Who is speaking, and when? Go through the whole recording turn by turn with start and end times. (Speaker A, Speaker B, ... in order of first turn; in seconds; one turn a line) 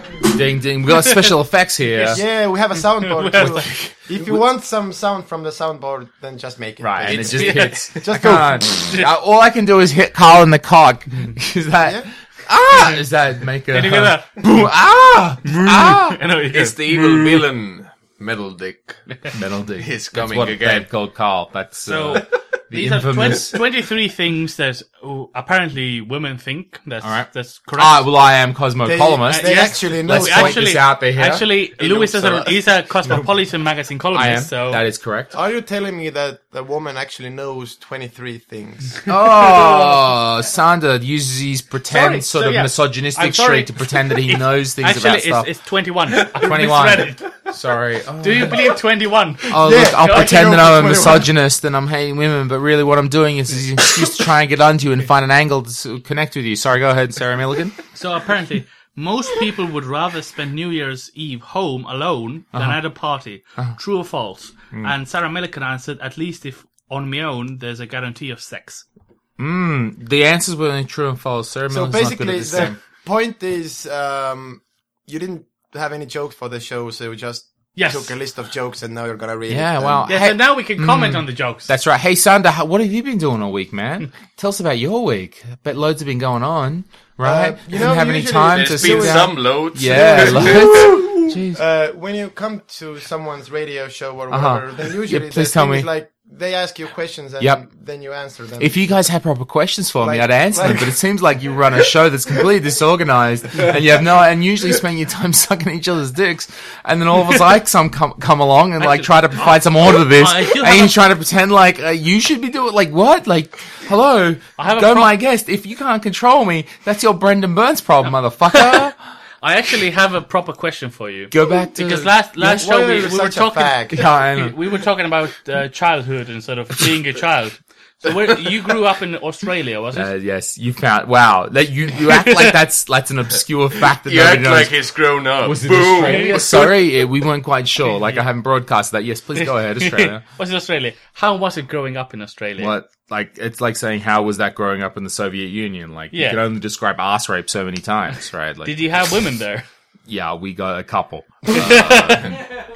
Speaker A: 0.2-2.2
Speaker B: 1.9-2.2
Speaker C: 2.0-8.6
Speaker B: 3.0-3.9
Speaker A: 3.4-3.7
Speaker A: 6.8-16.2
Speaker B: 7.1-8.2
Speaker B: 13.7-14.3
Speaker B: 15.4-17.4
Speaker D: 16.5-19.1
Speaker A: 19.3-23.6
Speaker D: 19.8-20.9
Speaker B: 21.8-28.1
Speaker A: 27.0-31.5
Speaker C: 28.8-30.7
Speaker B: 29.3-34.8
Speaker D: 31.8-32.5
Speaker A: 34.1-35.3
Speaker C: 35.3-39.1
Speaker A: 39.1-45.5
Speaker B: 41.9-47.2
Speaker A: 46.1-48.8
Speaker B: 48.2-50.4
Speaker A: 49.5-57.8
Speaker C: 49.5-51.3
Speaker B: 57.9-68.8
Speaker A: 62.5-62.8
Speaker A: 69.4-72.8
Speaker C: 71.7-80.0
Speaker B: 77.8-78.1
Speaker A: 79.5-91.6
Speaker B: 80.1-81.7
Speaker C: 87.2-89.3
Speaker D: 88.5-91.1
Speaker C: 90.0-98.7
Speaker A: 94.3-95.9
Speaker A: 98.6-119.0
Speaker C: 100.0-101.0
Speaker B: 108.8-111.0
Speaker B: 114.6-115.1
Speaker B: 118.5-118.8
Speaker B: 119.4-130.1
Speaker A: 121.3-122.7
Speaker C: 122.4-124.0
Speaker A: 123.9-124.6
Speaker A: 129.9-134.7
Speaker B: 132.1-132.6
Speaker D: 134.0-136.7
Speaker A: 135.4-140.2
Speaker B: 136.0-136.5
Speaker B: 139.8-142.8
Speaker A: 142.6-148.8
Speaker B: 146.1-146.4
Speaker B: 148.6-149.6
Speaker A: 150.1-152.4
Speaker B: 151.5-152.3